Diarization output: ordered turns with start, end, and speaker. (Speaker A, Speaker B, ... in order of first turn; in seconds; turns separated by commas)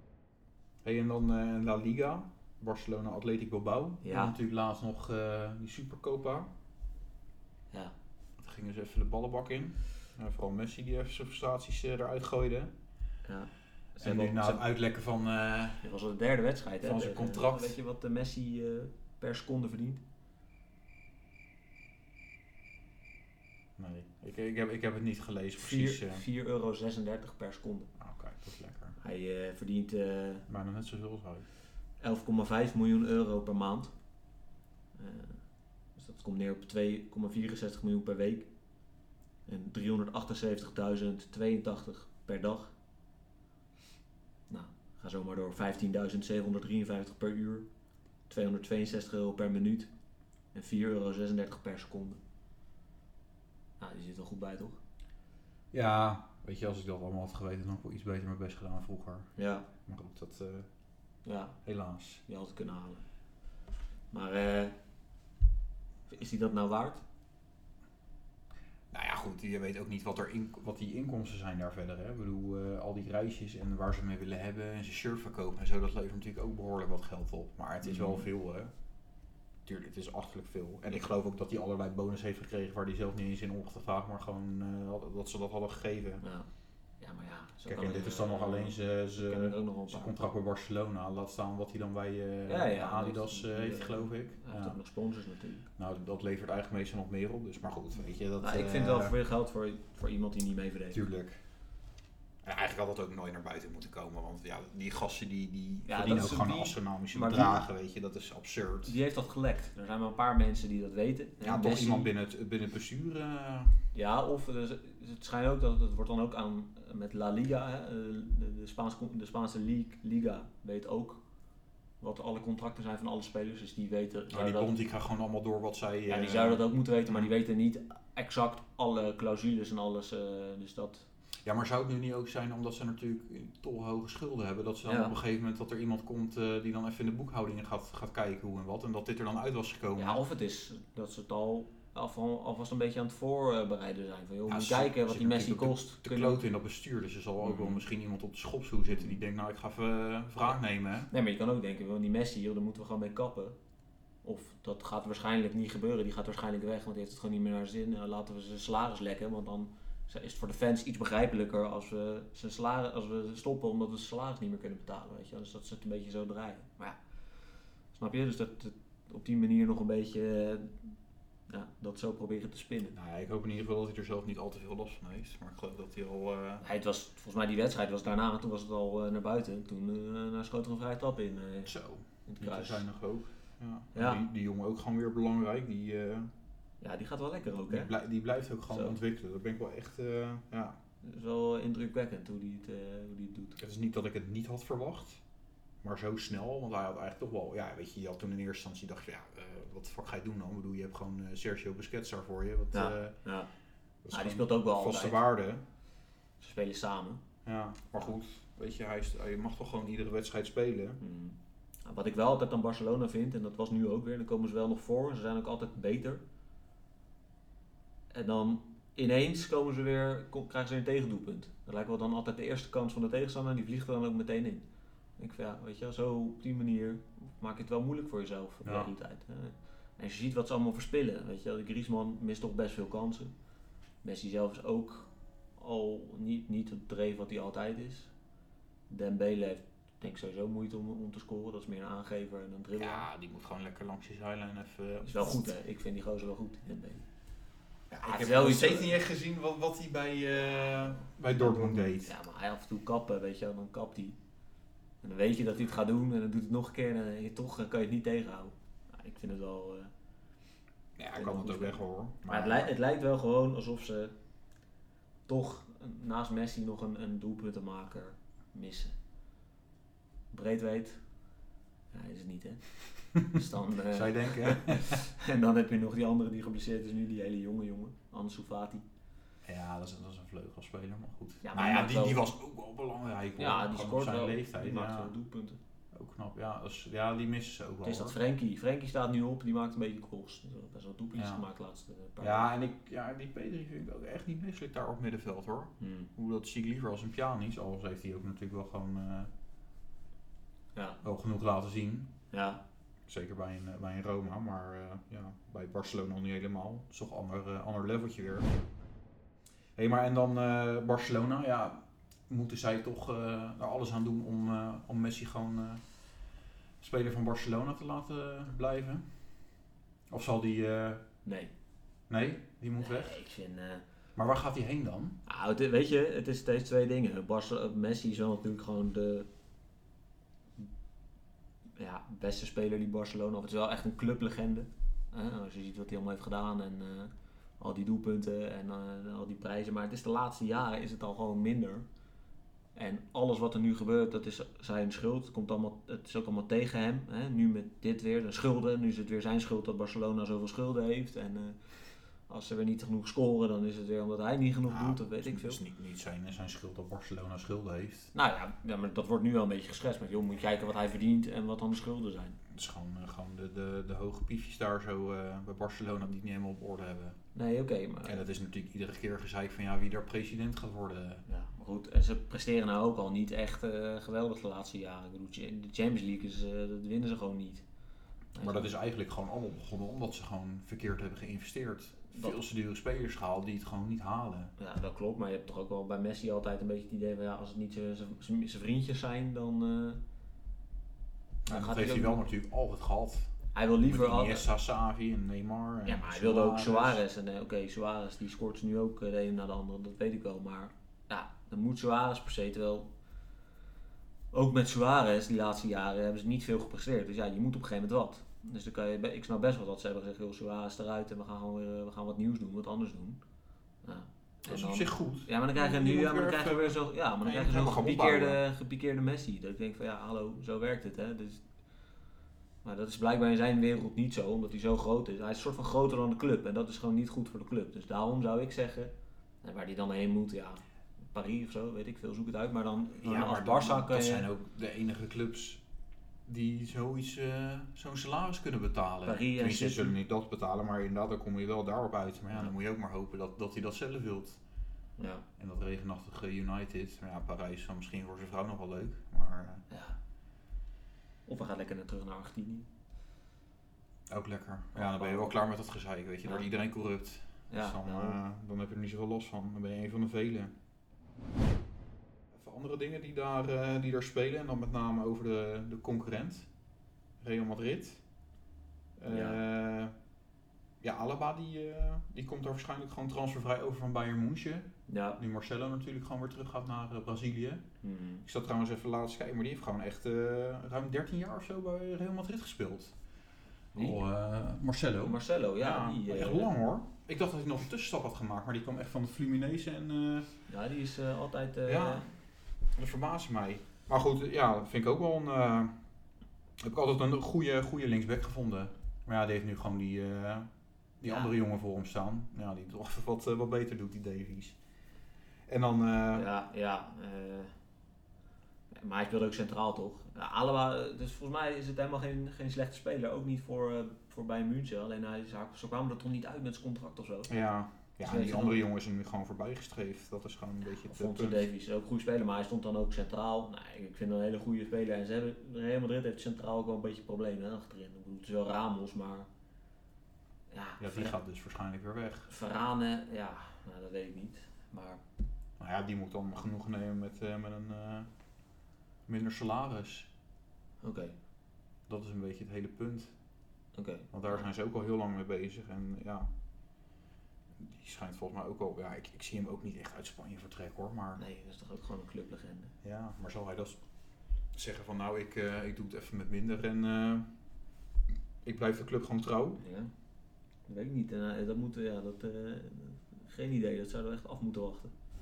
Speaker A: 0.8-6.5, Speaker B: 4.0-4.3, Speaker A: 8.4-12.7, Speaker B: 13.2-14.6, Speaker A: 14.0-15.8, Speaker B: 15.8-20.0, Speaker A: 16.8-17.8, Speaker A: 23.8-26.2, Speaker B: 25.6-27.9, Speaker A: 28.0-29.0, Speaker B: 29.0-30.4, Speaker A: 30.5-31.5, Speaker B: 32.0-33.9, Speaker B: 35.0-35.4, Speaker B: 36.0-38.5, Speaker B: 39.5-42.7, Speaker B: 44.5-47.7, Speaker B: 48.3-49.9, Speaker B: 50.5-52.2, Speaker B: 53.8-54.8, Speaker A: 55.7-59.3, Speaker B: 59.4-59.7, Speaker A: 59.9-60.7, Speaker B: 61.2-61.6, Speaker A: 61.6-62.2, Speaker B: 62.3-63.0, Speaker B: 64.1-64.8, Speaker B: 66.1-67.0, Speaker A: 68.9-78.7, Speaker B: 77.8-78.2, Speaker A: 79.7-86.2, Speaker B: 86.2-86.5, Speaker B: 87.0-90.1, Speaker A: 87.7-94.8, Speaker B: 92.5-95.7, Speaker A: 95.8-99.2, Speaker B: 98.4-101.0, Speaker A: 100.9-101.4, Speaker A: 102.4-108.9, Speaker B: 105.9-107.6, Speaker B: 108.8-112.1, Speaker A: 111.4-113.8, Speaker B: 113.9-121.2, Speaker B: 122.0-124.7, Speaker A: 124.3-127.3, Speaker B: 126.1-131.1, Speaker A: 131.4-140.2, Speaker B: 134.9-135.2, Speaker B: 140.0-146.4, Speaker A: 144.5-151.1, Speaker B: 147.4-147.8, Speaker B: 151.1-153.6, Speaker B: 154.2-167.0, Speaker B: 167.9-170.9, Speaker B: 171.5-173.0, Speaker A: 172.9-176.6, Speaker B: 176.6-181.7, Speaker A: 181.7-186.3, Speaker B: 182.3-182.9, Speaker B: 183.9-184.2, Speaker B: 186.8-187.9, Speaker A: 187.7-190.8, Speaker B: 188.7-189.0, Speaker B: 191.0-193.6, Speaker A: 193.6-195.2, Speaker A: 195.8-203.2, Speaker B: 202.7-203.5, Speaker A: 204.0-205.6, Speaker B: 204.1-205.2, Speaker B: 206.4-207.2, Speaker A: 207.4-211.0, Speaker B: 211.0-216.2, Speaker B: 218.1-224.6, Speaker B: 225.2-233.3, Speaker A: 228.6-228.9, Speaker B: 234.0-238.1, Speaker B: 238.9-243.1, Speaker A: 242.8-245.5, Speaker B: 245.0-247.1, Speaker A: 247.9-252.1, Speaker B: 248.0-249.0, Speaker B: 251.3-254.2, Speaker B: 255.0-259.9, Speaker A: 261.0-262.7, Speaker B: 261.1-264.1, Speaker B: 265.3-268.9, Speaker B: 270.3-271.0, Speaker B: 271.9-278.8, Speaker A: 273.9-275.0, Speaker A: 279.4-285.1, Speaker B: 281.4-282.3, Speaker B: 283.4-285.6, Speaker A: 285.9-288.2, Speaker B: 287.8-292.5, Speaker A: 291.2-291.5, Speaker A: 292.2-299.3, Speaker B: 295.8-296.1, Speaker B: 300.8-301.0, Speaker A: 301.0-302.1, Speaker B: 302.3-302.6, Speaker A: 303.1-308.5, Speaker A: 309.8-315.8, Speaker A: 316.8-319.1, Speaker A: 320.1-321.0, Speaker B: 321.2-321.5, Speaker A: 322.1-323.2, Speaker B: 322.8-323.8, Speaker A: 324.2-325.2, Speaker B: 325.3-329.3, Speaker B: 331.8-341.9, Speaker B: 342.8-351.6, Speaker B: 352.3-355.6, Speaker A: 354.7-358.1, Speaker B: 358.1-362.4, Speaker A: 362.5-367.2, Speaker B: 367.3-368.2, Speaker A: 368.1-371.2, Speaker B: 371.3-377.6, Speaker B: 378.4-378.7, Speaker A: 378.4-384.5, Speaker B: 382.1-382.4, Speaker B: 384.6-390.0, Speaker A: 391.5-397.0, Speaker B: 391.5-392.2, Speaker B: 393.5-394.5, Speaker B: 395.9-402.9, Speaker B: 404.3-413.2, Speaker B: 413.8-421.4, Speaker A: 414.5-418.4, Speaker B: 422.6-430.6, Speaker B: 431.1-434.3, Speaker A: 433.0-435.6, Speaker A: 436.3-444.4, Speaker B: 439.1-440.0, Speaker B: 445.0-445.2, Speaker A: 445.4-449.6, Speaker B: 449.7-450.0, Speaker B: 451.3-452.7, Speaker A: 454.1-460.5, Speaker B: 454.8-455.4, Speaker B: 457.5-458.2, Speaker A: 462.3-466.5, Speaker A: 467.2-468.0, Speaker A: 469.0-469.9, Speaker B: 469.1-469.4, Speaker A: 470.8-477.6, Speaker B: 474.9-475.2, Speaker B: 477.8-478.2, Speaker A: 478.2-482.9, Speaker B: 483.7-484.0, Speaker A: 483.8-490.3, Speaker B: 485.0-486.5, Speaker B: 490.5-492.1, Speaker A: 491.7-492.1, Speaker A: 492.8-495.7, Speaker A: 496.6-500.5, Speaker A: 501.0-504.6, Speaker B: 501.1-501.3, Speaker A: 505.5-506.3, Speaker B: 506.1-507.5, Speaker B: 508.7-517.3, Speaker A: 517.3-521.5, Speaker B: 518.0-518.6, Speaker B: 520.9-529.3, Speaker B: 530.5-531.1, Speaker A: 530.8-532.3, Speaker B: 532.3-535.0, Speaker A: 535.6-538.1, Speaker A: 539.1-540.1, Speaker B: 540.8-541.1, Speaker A: 541.9-543.1, Speaker B: 543.8-544.5, Speaker A: 544.1-546.3, Speaker A: 547.6-551.2, Speaker B: 551.2-552.7, Speaker A: 552.8-553.8, Speaker A: 554.5-557.3, Speaker A: 558.4-559.6, Speaker B: 559.6-559.9, Speaker B: 560.7-564.9